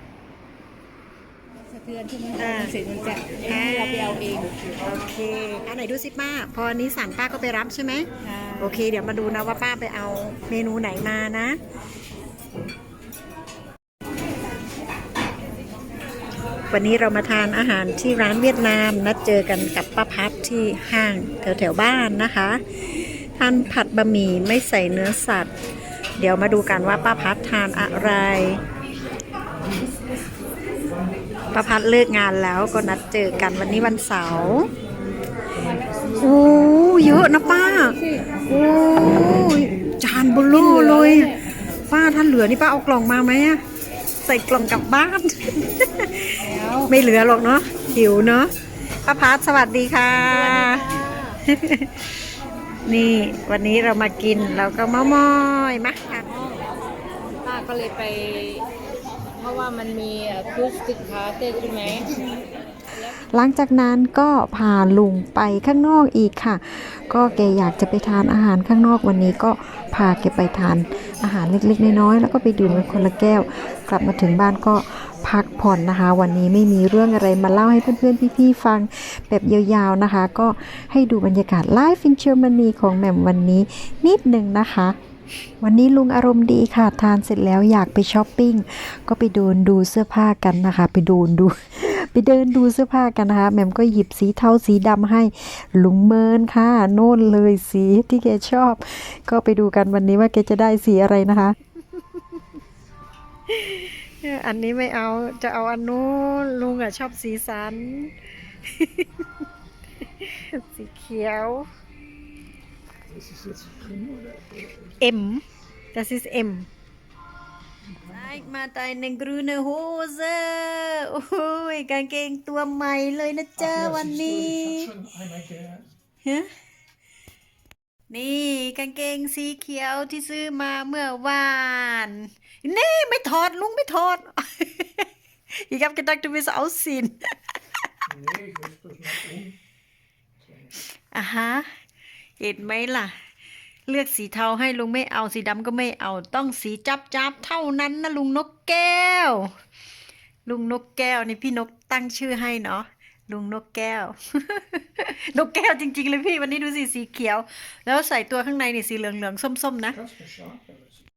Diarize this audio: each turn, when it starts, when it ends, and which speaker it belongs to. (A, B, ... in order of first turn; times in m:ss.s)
0:01.7-0:04.5 A
0:02.4-0:02.8 B
0:03.4-0:11.6 B
0:08.4-0:08.6 A
0:16.7-0:25.5 B
0:26.2-0:28.6 B
0:31.5-0:34.7 B
0:36.2-0:43.6 B
0:37.8-0:38.2 A
0:40.5-0:41.4 A
0:44.2-0:48.5 B
0:46.5-0:46.9 A
0:49.0-0:52.1 B
0:50.3-0:51.4 A
0:52.8-0:56.4 B
0:56.3-0:56.6 A
0:57.4-0:58.7 A
0:59.3-1:02.1 A
1:03.0-1:25.0 B
1:25.6-1:41.6 B
1:43.5-1:49.2 B
1:50.2-1:51.7 B
1:53.1-1:54.9 C
1:55.0-1:56.7 B
1:58.0-2:04.9 B
2:03.7-2:05.8 C
2:06.2-2:06.5 B
2:08.1-2:17.3 B
2:18.1-2:19.6 C
2:20.9-2:21.7 B
2:22.4-2:23.2 B
2:23.9-2:29.5 B
2:30.4-2:40.0 B
2:40.0-2:40.9 C